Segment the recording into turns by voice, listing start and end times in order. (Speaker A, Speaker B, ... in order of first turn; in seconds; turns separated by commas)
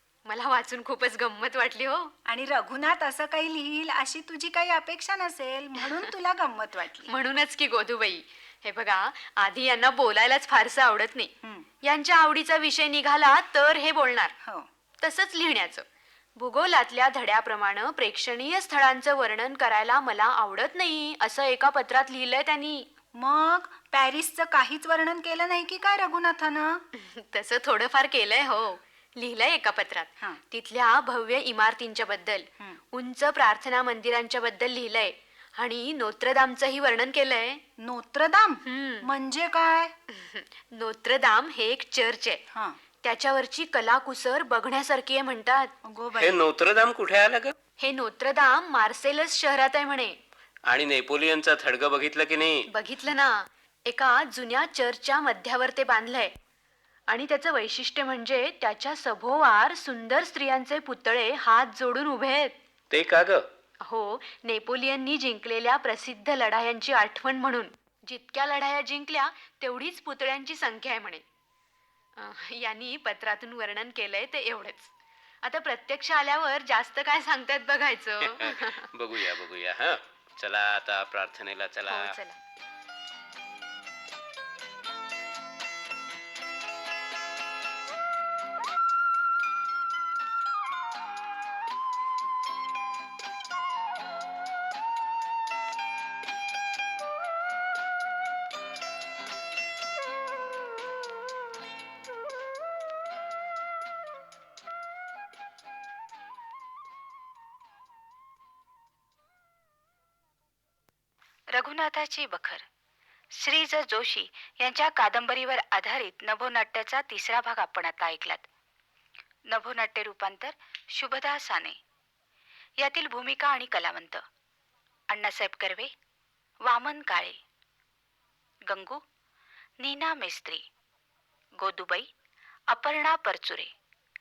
Speaker A: 0.3-2.1, Speaker B: 2.3-7.1, Speaker A: 7.1-11.3, Speaker A: 11.8-14.3, Speaker A: 15.0-15.8, Speaker A: 16.4-22.9, Speaker B: 23.2-26.8, Speaker A: 26.9-37.6, Speaker B: 37.8-39.9, Speaker A: 38.6-39.1, Speaker A: 40.1-42.4, Speaker B: 42.5-42.8, Speaker A: 43.0-45.7, Speaker B: 45.9-46.4, Speaker C: 46.2-47.5, Speaker A: 47.8-50.2, Speaker C: 50.7-52.7, Speaker A: 52.7-56.3, Speaker A: 57.1-62.6, Speaker C: 62.9-63.5, Speaker A: 63.9-71.2, Speaker A: 72.2-74.9, Speaker A: 75.4-78.9, Speaker C: 78.3-82.2, Speaker A: 81.9-82.4, Speaker D: 111.5-112.7, Speaker D: 113.4-118.5, Speaker D: 119.5-121.8, Speaker D: 122.8-124.2, Speaker D: 125.1-125.9, Speaker D: 126.7-127.4, Speaker D: 128.7-129.0, Speaker D: 129.8-130.7, Speaker D: 131.6-132.1, Speaker D: 132.7-133.7